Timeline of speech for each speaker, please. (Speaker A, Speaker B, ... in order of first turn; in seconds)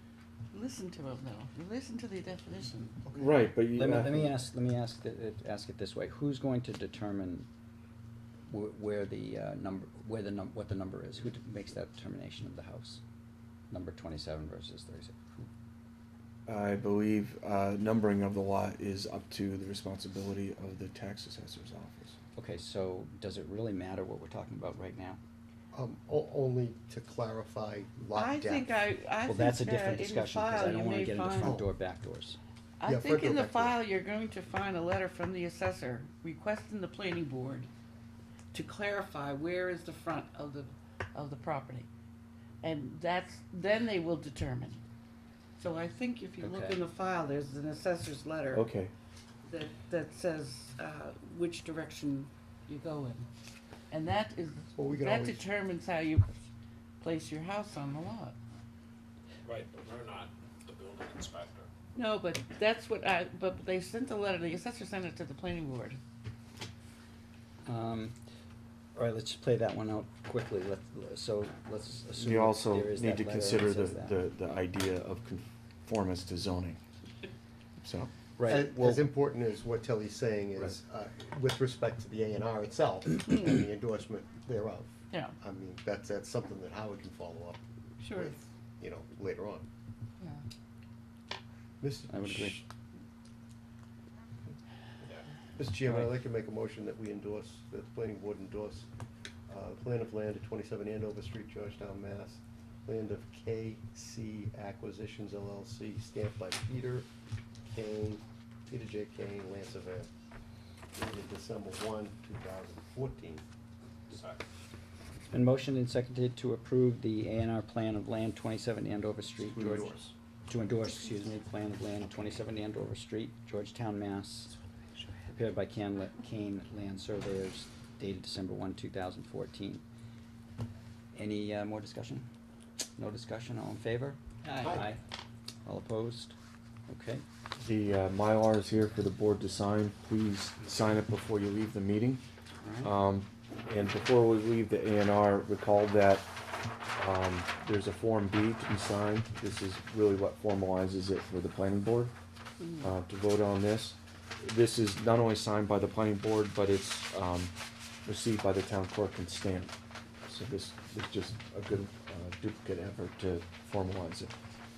Speaker A: 0.5-3.0, 28.1-31.6, 32.8-37.7, 38.5-41.9, 42.6-44.8, 45.6-48.7, 49.4-53.3, 53.9-56.3, 57.0-58.4, 62.0-66.0, 88.0-88.3
Speaker B: 3.2-4.4, 16.5-22.2, 48.5-48.9, 72.2-76.8, 77.8-78.1, 137.6-142.2, 142.8-146.3, 147.0-152.1, 152.8-157.5, 158.1-159.7, 160.3-164.3
Speaker C: 3.7-7.5, 8.5-13.0, 13.7-15.5, 22.4-25.2, 29.2-32.4, 46.4-46.8, 67.7-68.2, 69.0-74.2, 78.4-79.1, 92.1-92.6, 115.3-119.9, 120.5-124.5, 125.3-129.8, 131.1-132.3, 133.0-135.0, 135.7-136.4, 136.9-137.2, 142.6-142.9
Speaker D: 25.7-28.7, 31.4-31.7, 32.9-33.8, 54.8-55.5, 78.5-89.7, 91.8-92.6, 95.5-98.9, 99.5-107.1, 107.7-110.1, 111.0-113.4, 119.5-120.1
Speaker E: 59.5-61.7, 114.1-114.4